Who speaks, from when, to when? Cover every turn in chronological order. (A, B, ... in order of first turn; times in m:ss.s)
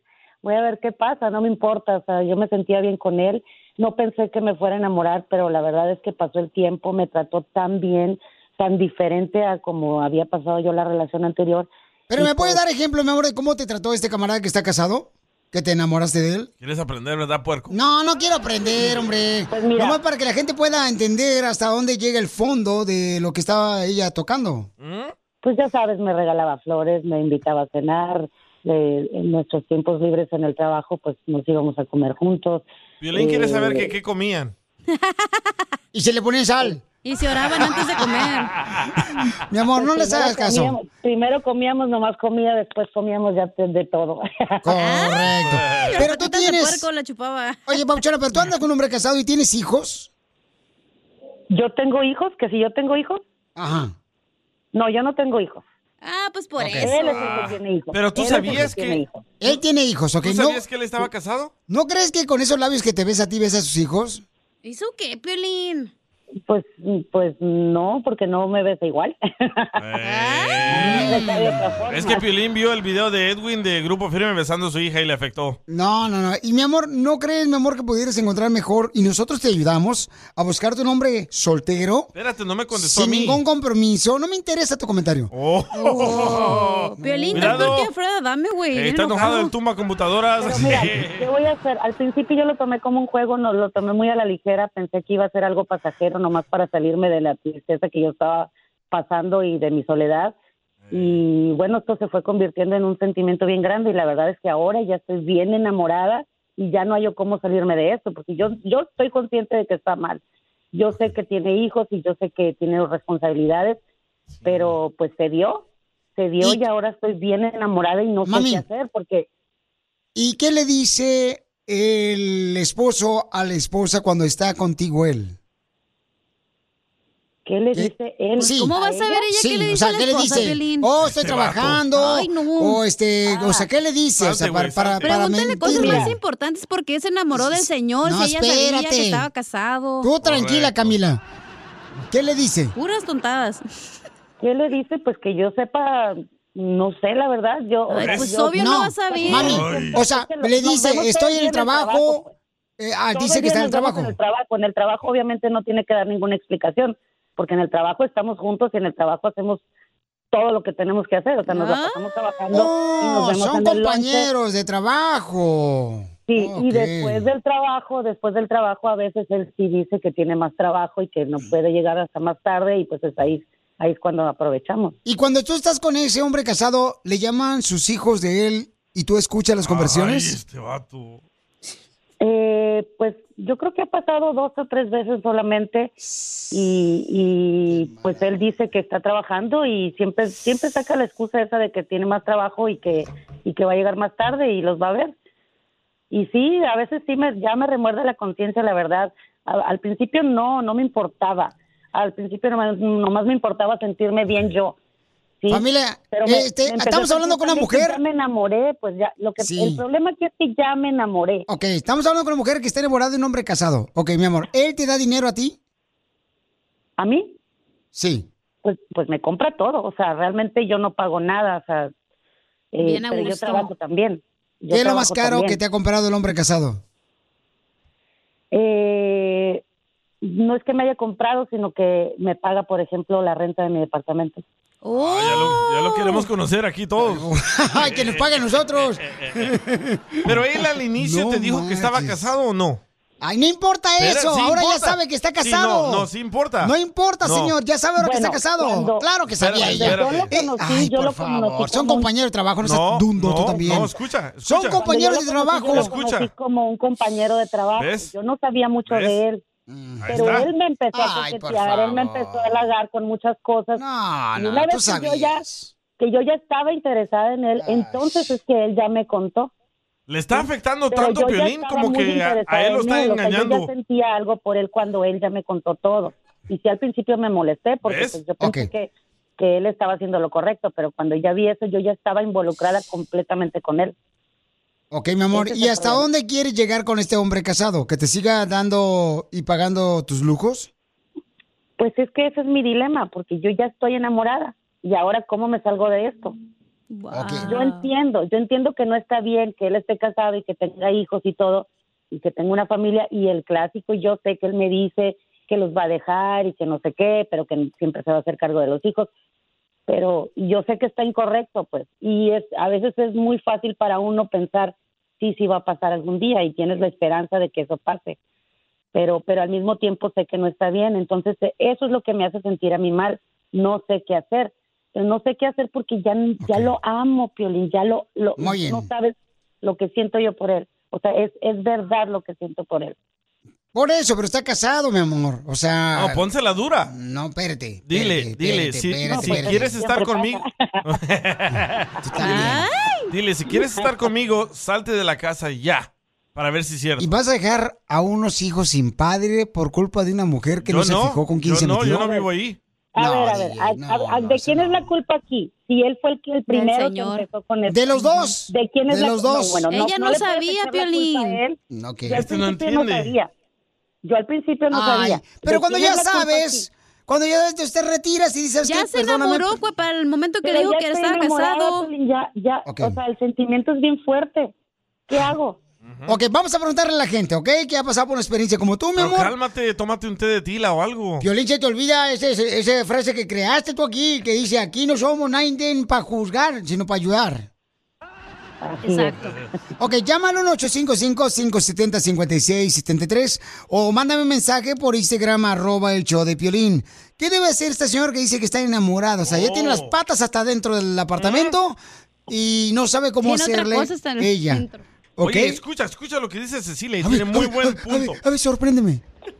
0:00.4-0:12.6 A
0:12.1-0:16.5 B
0:16.6-0:17.7 C
0:17.7-0:24.7 B
0:19.5-0:20.0 A
0:24.8-0:25.1 C
0:25.4-0:33.9 A
0:33.0-0:34.5 C
0:35.0-0:35.4 D
0:35.9-0:36.8 B
0:37.0-0:38.5 D
0:39.5-0:40.8 B
0:39.8-0:44.6 A
0:44.6-0:46.8 B
0:44.8-0:47.7 D
0:45.4-0:46.0 C
0:47.7-0:50.1 B
0:51.5-0:53.2 A
0:53.6-0:53.9 B
0:54.7-0:55.6 A
0:56.0-0:57.3 D
0:56.6-0:56.9 B
0:56.8-0:59.2 A
0:56.9-0:59.0 C
0:59.4-1:00.6 B
1:00.2-1:01.5 C
1:01.7-1:04.2 B
1:04.6-1:05.9 D
1:06.5-1:09.7 A
1:09.8-1:15.6 C
1:10.0-1:10.6 D
1:10.7-1:12.2 A
1:10.7-1:11.4 B
1:15.7-1:22.1 B
1:22.1-1:23.4 C
1:22.7-1:25.3 B
1:25.3-1:27.9 C
1:25.8-1:29.5 D
1:27.0-1:27.7 B
1:28.7-1:31.3 C
1:30.4-1:40.3 A
1:40.9-1:41.2 C
1:40.9-1:50.2 A
1:50.7-1:53.8 A
1:54.4-1:54.7 C
1:54.4-1:55.6 A
1:56.2-1:59.3 A
1:58.2-1:58.6 B
2:00.1-2:05.4 B
2:07.4-2:09.2 A
2:07.7-2:08.8 B
2:08.4-2:10.9 D
2:09.3-2:16.2 B
2:11.0-2:11.8 C
2:11.9-2:13.6 D
2:14.2-2:15.1 C
2:15.0-2:20.1 D
2:15.6-2:16.1 A
2:17.3-2:19.2 B
2:20.0-2:21.2 B
2:20.2-2:21.0 C
2:22.1-2:22.7 B
2:22.8-2:23.6 D
2:24.4-2:32.3 A
2:27.9-2:29.6 D
2:28.0-2:28.3 C
2:28.5-2:32.2 B
2:29.3-2:30.0 C
2:32.8-2:34.2 B
2:33.1-2:39.6 A
2:40.3-2:44.3 A
2:41.5-2:42.0 D
2:42.5-2:47.3 B
2:46.3-2:55.0 A
2:55.0-3:00.4 B
2:59.6-3:01.2 C
3:02.2-3:05.9 A
3:06.0-3:06.4 B
3:06.5-3:15.1 A
3:07.7-3:08.3 B
3:16.1-3:24.8 A
3:25.4-3:31.4 A
3:25.5-3:28.0 B
3:29.4-3:29.8 B
3:31.5-3:35.6 B
3:37.0-3:37.3 A
3:37.9-3:38.3 B
3:38.6-3:41.9 A
3:42.7-3:45.6 A
3:42.8-3:43.7 D
3:44.7-3:46.8 B
3:48.5-3:49.6 A
3:50.2-3:54.4 A
3:54.8-3:56.2 D
3:54.9-3:57.3 C
3:57.0-4:00.4 B
3:57.8-3:59.5 C
4:00.2-4:02.8 C
4:00.9-4:02.3 B
4:03.2-4:06.1 B
4:04.0-4:07.6 C
4:06.6-4:13.9 B
4:08.0-4:09.0 A
4:09.4-4:10.3 C
4:09.6-4:12.1 A
4:12.6-4:14.9 C
4:14.4-4:16.0 B
4:14.8-4:19.4 A
4:15.6-4:16.3 C
4:17.8-4:18.1 C
4:18.9-4:19.2 C
4:19.7-4:22.7 B
4:20.0-4:20.5 C
4:20.1-4:23.8 A
4:23.7-4:25.7 B
4:24.4-4:25.4 A
4:26.0-4:29.5 A
4:27.6-4:28.4 B
4:30.1-4:33.7 C
4:30.3-4:43.9 A
4:37.8-4:38.2 C
4:38.4-4:38.7 B
4:44.9-4:50.7 B
4:45.3-4:46.0 A
4:51.8-4:56.3 A
4:56.9-4:57.9 D
4:57.1-4:57.5 B
4:57.4-5:09.1 A
5:09.9-5:18.2 A
5:18.9-5:33.0 A
5:26.4-5:26.7 B
5:28.4-5:28.9 B
5:33.7-5:36.2 B
5:35.9-5:36.9 C
5:36.9-5:39.7 B
5:37.9-5:42.5 C
5:39.1-5:40.8 A
5:42.0-5:42.6 B
5:42.2-5:43.1 D
5:43.1-5:47.1 C
5:43.6-5:44.0 A
5:47.0-5:52.1 B
5:50.6-5:52.6 C
5:52.9-6:03.3 A
5:53.0-5:54.9 B
5:56.5-5:57.2 D
5:57.7-5:59.7 B
5:59.7-6:01.4 D
6:01.7-6:02.2 B
6:02.1-6:03.2 C
6:04.0-6:06.6 A
6:04.7-6:09.6 B
6:08.6-6:11.9 D
6:10.4-6:14.5 A
6:12.6-6:13.0 B
6:15.1-6:15.6 A
6:15.8-6:16.1 C
6:16.0-6:19.3 B
6:19.0-6:21.3 C
6:21.2-6:27.5 B
6:28.6-6:29.3 A
6:28.8-6:29.3 D
6:29.2-6:29.5 C
6:29.8-6:44.6 B
6:39.2-6:39.9 C
6:41.2-6:41.5 C
6:43.2-6:44.8 D
6:45.2-6:45.6 B
6:45.2-6:48.2 C
6:47.0-6:49.0 B